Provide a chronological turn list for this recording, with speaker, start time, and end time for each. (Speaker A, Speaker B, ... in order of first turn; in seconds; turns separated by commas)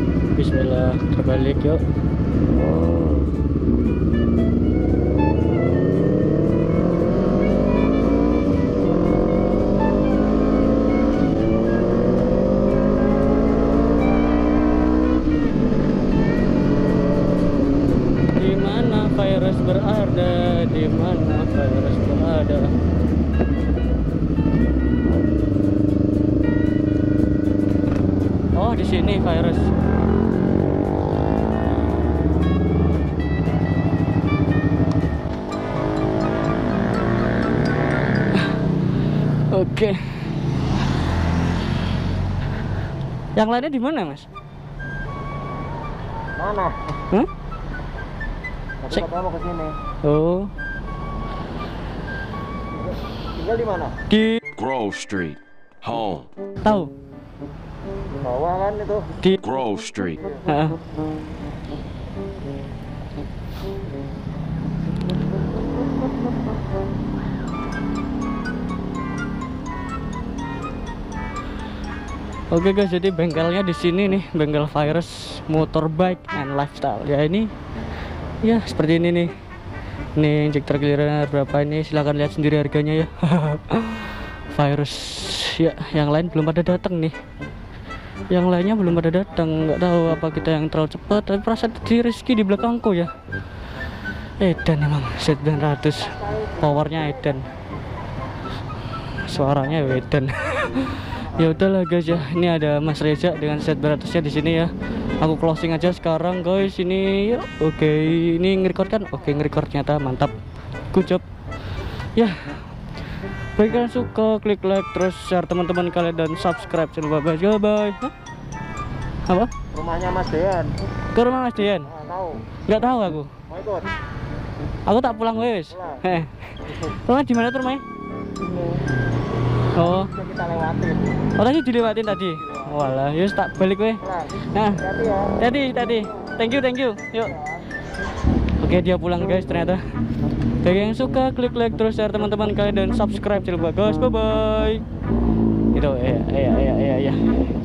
Speaker A: 0.3-1.8, Speaker A: 18.4-22.7, Speaker A: 28.6-29.7, Speaker A: 39.5-40.1, Speaker A: 43.4-44.2, Speaker B: 46.4-46.7, Speaker A: 48.9-49.1, Speaker B: 49.1-49.7, Speaker A: 50.0-50.5, Speaker B: 53.4-53.9, Speaker A: 54.1-54.4, Speaker C: 54.5-56.3, Speaker A: 56.6-56.9, Speaker B: 58.2-59.1, Speaker C: 59.4-60.2, Speaker A: 60.4-60.8, Speaker A: 72.5-77.5, Speaker A: 78.4-79.3, Speaker A: 80.2-87.2, Speaker A: 88.3-93.1, Speaker A: 94.4-97.5, Speaker A: 99.1-110.3, Speaker A: 110.9-111.2, Speaker A: 112.2-112.5, Speaker A: 113.5-118.1, Speaker A: 119.3-119.5, Speaker B: 119.8-120.7, Speaker A: 121.1-122.0, Speaker A: 122.6-123.3, Speaker A: 124.8-127.8, Speaker A: 129.7-130.1, Speaker B: 130.3-131.0, Speaker A: 131.3-137.4, Speaker A: 138.6-139.8, Speaker A: 140.6-144.8, Speaker A: 145.7-147.5